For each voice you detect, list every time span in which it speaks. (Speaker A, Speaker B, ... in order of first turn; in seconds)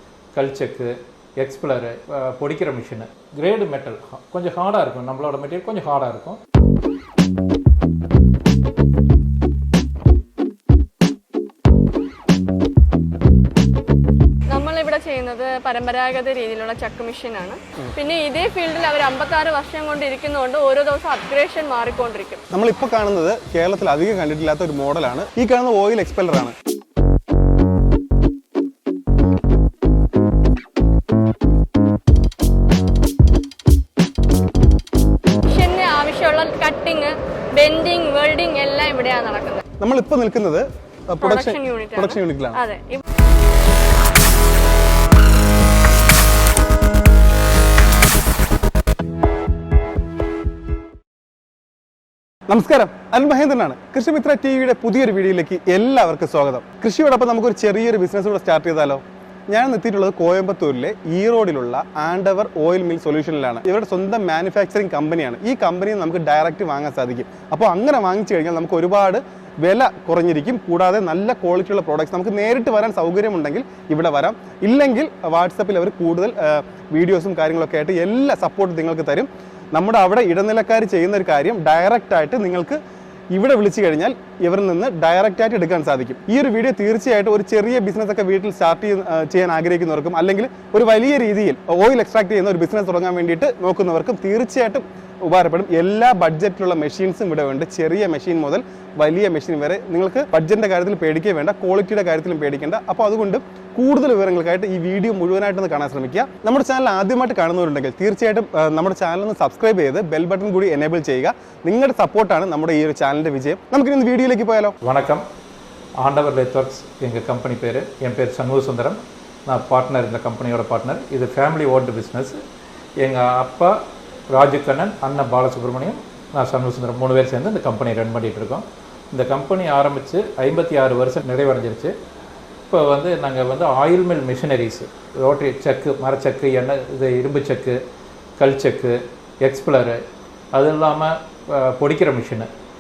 Speaker A: 0.3-6.4, 114.8-115.2, 116.0-122.4, 123.0-123.8, 124.3-131.9, 132.7-137.8, 138.4-140.0, 140.5-142.5
Speaker B: 14.5-22.4, 35.5-39.6, 41.2-43.0
Speaker C: 22.5-26.6, 39.8-42.6, 52.5-82.8, 83.3-114.8